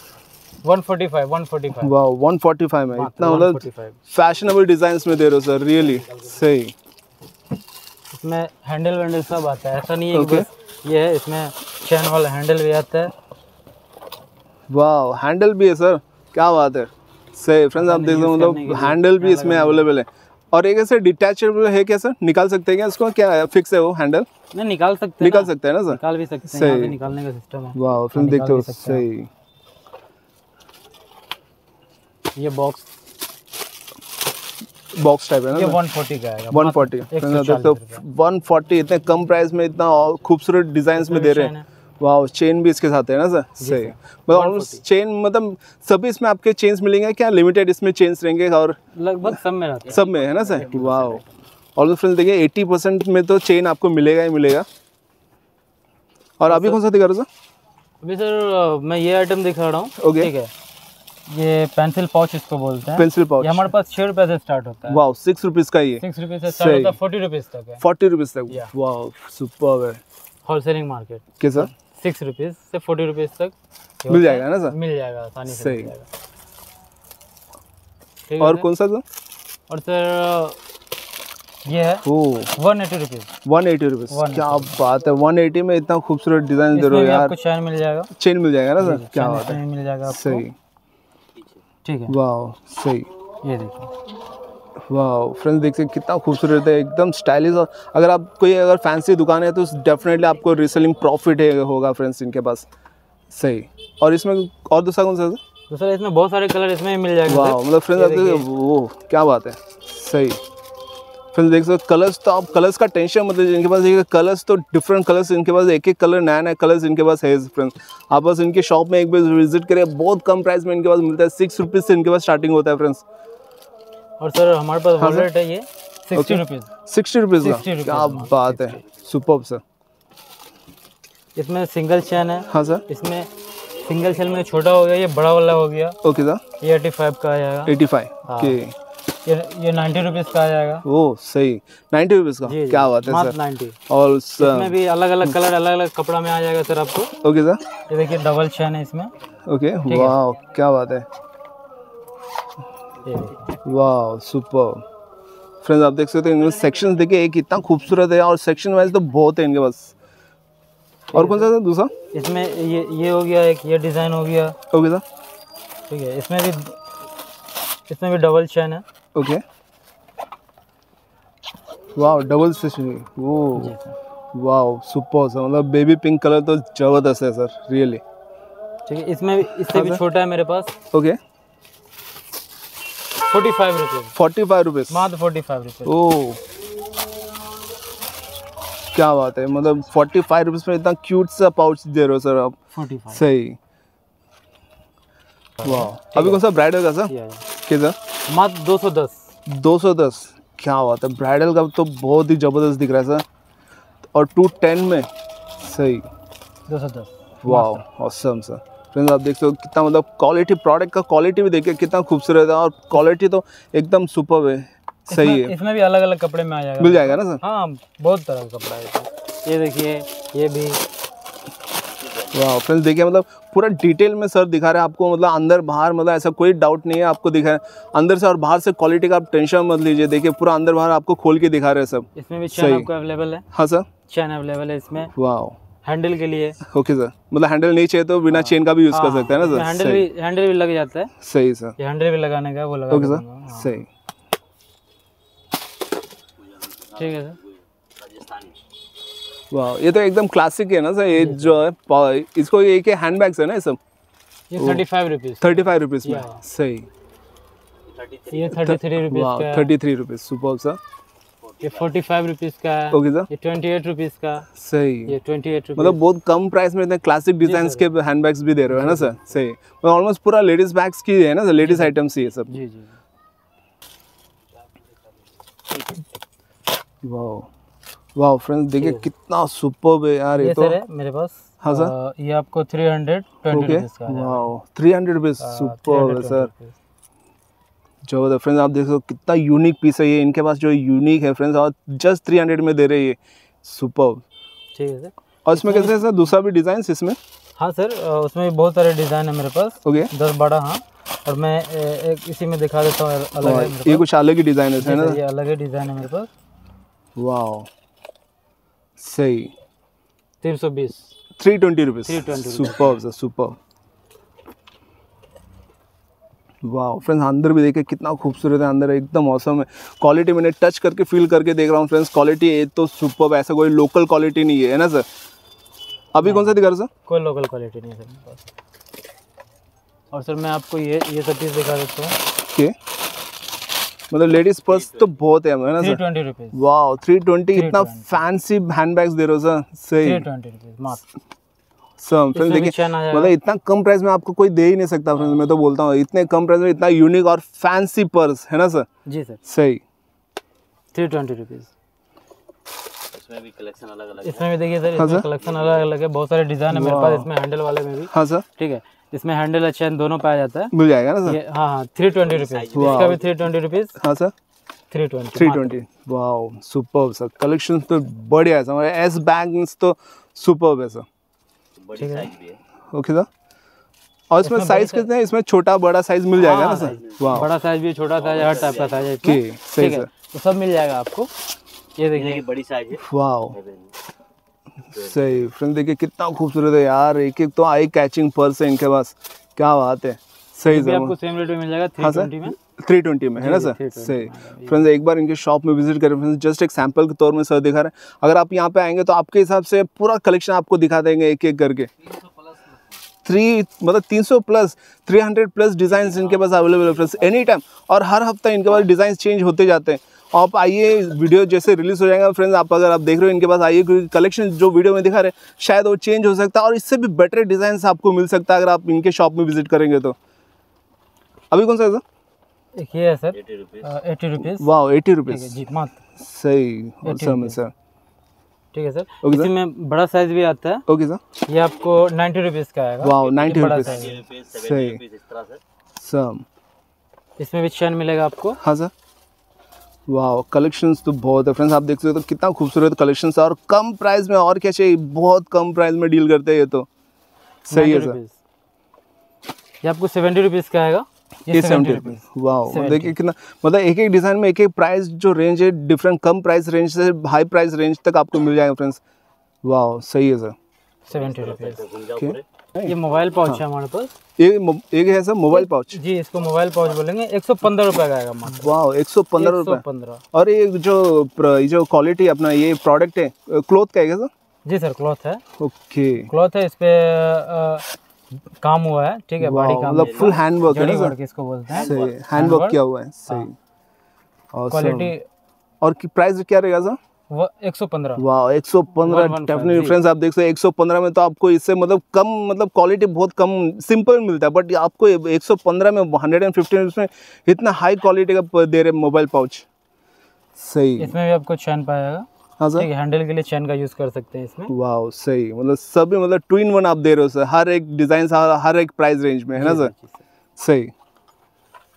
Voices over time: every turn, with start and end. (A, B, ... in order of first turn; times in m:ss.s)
0:00.6-0:01.9 A
0:01.8-0:06.7 B
0:02.9-0:04.0 A
0:08.1-0:13.1 A
0:10.1-0:10.4 B
0:14.7-0:24.3 B
0:17.8-0:19.9 A
0:24.5-0:29.0 A
0:25.2-0:27.0 B
0:27.7-0:29.3 B
0:32.4-0:32.9 A
0:34.9-0:35.8 B
0:35.5-0:38.0 A
0:36.5-0:49.4 B
0:40.9-0:41.6 A
0:43.6-0:44.8 A
0:48.9-0:51.2 A
0:49.9-0:51.2 B
0:51.8-0:54.6 B
0:56.4-0:57.3 B
0:56.4-0:56.8 A
0:58.0-1:00.5 A
1:00.0-1:00.3 B
1:01.3-1:05.0 A
1:02.9-1:03.7 B
1:04.9-1:07.0 B
1:06.0-1:07.8 A
1:07.8-1:10.0 B
1:10.4-1:16.1 A
1:11.4-1:11.7 B
1:14.1-1:14.7 B
1:15.5-1:15.9 B
1:18.3-1:18.6 A
1:18.4-1:19.0 B
1:19.7-1:20.6 A
1:21.6-1:23.3 A
1:22.0-1:22.5 B
1:23.4-1:27.4 B
1:24.1-1:24.8 A
1:26.7-1:28.1 A
1:28.1-1:30.5 B
1:28.8-1:30.4 A
1:31.8-1:32.2 A
1:32.1-1:33.1 B
1:33.4-1:33.9 A
1:34.8-1:42.7 B
1:43.3-1:45.4 B
1:45.7-1:48.5 A
1:47.3-1:50.4 B
1:51.3-2:03.0 B
2:04.2-2:06.7 A
2:05.0-2:05.3 B
2:06.1-2:09.6 B
2:07.4-2:08.8 A
2:11.3-2:13.3 A
2:12.5-2:12.8 B
2:13.8-2:14.5 C
2:13.8-2:16.0 A
2:16.0-2:16.4 B
2:16.6-2:18.6 A
2:17.6-2:18.7 B
2:19.2-2:20.8 A
2:20.8-2:23.4 B
2:22.4-2:23.8 A
2:23.9-2:25.4 B
2:24.4-2:27.1 A
2:27.2-2:27.6 B
2:27.9-2:29.1 A
2:29.4-2:31.1 B
2:29.8-2:30.2 A
2:33.0-2:33.6 A
2:33.6-2:34.8 B
2:35.6-2:39.9 B
2:41.1-2:41.5 A
2:41.1-2:41.9 B
2:42.1-2:44.6 A
2:44.7-2:45.0 B
2:45.9-2:46.8 A
2:47.9-2:48.8 A
2:49.1-2:49.4 B
2:51.9-2:53.7 B
2:53.5-2:54.0 A
2:54.3-2:58.0 B
2:58.9-3:00.7 A
2:59.7-3:00.0 B
3:00.9-3:01.2 B
3:03.2-3:04.1 A
3:04.2-3:05.0 B
3:04.9-3:05.9 A
3:05.8-3:06.4 B
3:08.9-3:12.6 B
3:12.7-3:13.2 A
3:13.1-3:13.6 B
3:15.6-3:16.4 A
3:15.6-3:18.0 B
3:17.0-3:17.4 A
3:18.3-3:19.3 A
3:19.4-3:23.2 B
3:24.1-3:26.1 B
3:26.7-3:27.8 A
3:27.4-3:35.5 B
3:35.1-3:40.8 A
3:36.8-3:37.4 B
3:41.8-3:42.3 C
3:42.3-3:52.9 B
3:52.1-3:53.4 A
3:53.5-3:53.9 B
3:54.1-3:55.1 A
3:55.1-3:55.6 B
3:55.8-3:56.6 A
3:56.6-4:00.0 B
3:58.3-4:01.1 A
4:01.2-4:01.8 B
4:01.8-4:03.8 A
4:02.9-4:03.9 B
4:06.4-4:08.6 C
4:06.9-4:07.4 A
4:09.5-4:13.8 B
4:11.2-4:11.6 A
4:14.5-4:16.4 A
4:14.6-4:14.8 B
4:15.4-4:16.9 B
4:17.9-4:18.6 C
4:18.3-4:19.7 A
4:18.5-4:20.8 B
4:21.4-4:21.9 C
4:21.6-4:24.5 A
4:22.9-4:23.3 B
4:24.6-4:25.2 B
4:25.1-4:26.0 A
4:25.8-4:32.5 B
4:27.4-4:27.8 A
4:28.7-4:29.4 A
4:31.6-4:31.9 A
4:32.5-4:33.0 A
4:37.0-4:37.5 B
4:38.1-4:40.8 B
4:38.8-4:39.1 A
4:40.4-4:44.5 A
4:41.6-4:41.9 B
4:43.5-4:46.5 B
4:45.4-4:46.7 A
4:48.0-4:54.2 B
4:54.7-4:56.0 A
4:55.4-4:57.2 B
4:57.6-5:04.0 A
4:59.8-5:00.1 B
5:03.4-5:05.2 B
5:04.8-5:06.3 A
5:07.2-5:07.7 B
5:09.0-5:09.5 B
5:10.4-5:11.1 A
5:11.4-5:13.6 B
5:12.0-5:13.0 A
5:16.6-5:25.1 B
5:26.1-5:26.9 B
5:26.2-5:28.4 A
5:30.1-5:32.2 A
5:34.1-5:36.0 B
5:35.8-5:36.6 A
5:36.5-5:40.2 B
5:37.5-5:38.2 A
5:40.0-5:41.0 A
5:42.0-5:48.9 B
5:42.3-5:43.3 A
5:49.0-5:49.4 A
5:49.4-5:49.8 B
5:50.9-5:51.7 A
5:53.1-5:55.9 C
5:54.2-6:00.7 A
5:54.9-5:55.3 B
5:56.7-5:57.3 B
5:58.1-5:58.4 B
6:00.7-6:01.4 B
6:01.2-6:03.9 A
6:02.2-6:03.3 C
6:02.7-6:03.2 B
6:04.0-6:04.3 B
6:04.9-6:05.7 A
6:05.4-6:11.0 B
6:11.8-6:12.6 C
6:12.0-6:12.3 A
6:12.9-6:13.3 B
6:14.3-6:17.5 B
6:14.4-6:15.1 A
6:16.4-6:21.3 A
6:16.4-6:17.5 C
6:18.2-6:19.1 C
6:19.2-6:20.1 B
6:22.0-6:22.4 A
6:22.1-6:23.9 C
6:22.9-6:23.6 B
6:24.9-6:25.2 C
6:25.0-6:31.1 B
6:30.7-6:32.6 A
6:32.0-6:41.9 B
6:33.4-6:34.9 A
6:43.2-7:00.2 B
6:46.0-6:47.3 C
7:01.5-7:02.0 B
7:02.7-7:04.7 A
7:03.3-7:03.9 C
7:04.6-7:05.6 B
7:05.3-7:06.0 A
7:06.2-7:07.7 B
7:07.0-7:07.6 A
7:08.7-7:10.8 A
7:09.2-7:09.5 B
7:10.9-7:11.2 B
7:11.5-7:14.2 A
7:13.0-7:15.0 B
7:13.2-7:15.6 C
7:16.0-7:16.4 B
7:17.4-7:18.6 A
7:18.6-7:18.9 B
7:20.1-7:26.9 B
7:27.7-7:28.2 B
7:27.7-7:28.4 A
7:29.8-7:33.2 A
7:31.5-7:39.0 B
7:39.6-7:40.6 B
7:41.1-7:41.9 A
7:41.1-7:42.4 C
7:42.1-7:43.6 B
7:42.8-7:44.1 A
7:44.4-7:46.0 B
7:45.5-7:48.7 A
7:48.5-7:49.8 B
7:49.4-7:50.2 A
7:50.3-7:54.3 B
7:54.6-7:55.4 A
7:55.6-7:56.3 B
7:56.3-7:57.8 A
7:58.6-8:03.5 A
7:59.4-8:01.1 B
7:59.9-8:00.4 C
8:01.7-8:03.5 B
8:01.7-8:02.2 C
8:04.5-8:05.1 B
8:04.7-8:05.2 A
8:05.8-8:07.0 B
8:07.3-8:08.2 A
8:08.2-8:19.6 B
8:09.0-8:10.0 A
8:20.6-8:21.1 B
8:21.0-8:24.7 A
8:22.6-8:22.9 B
8:24.7-8:29.9 B
8:29.6-8:30.2 A
8:30.6-8:30.9 B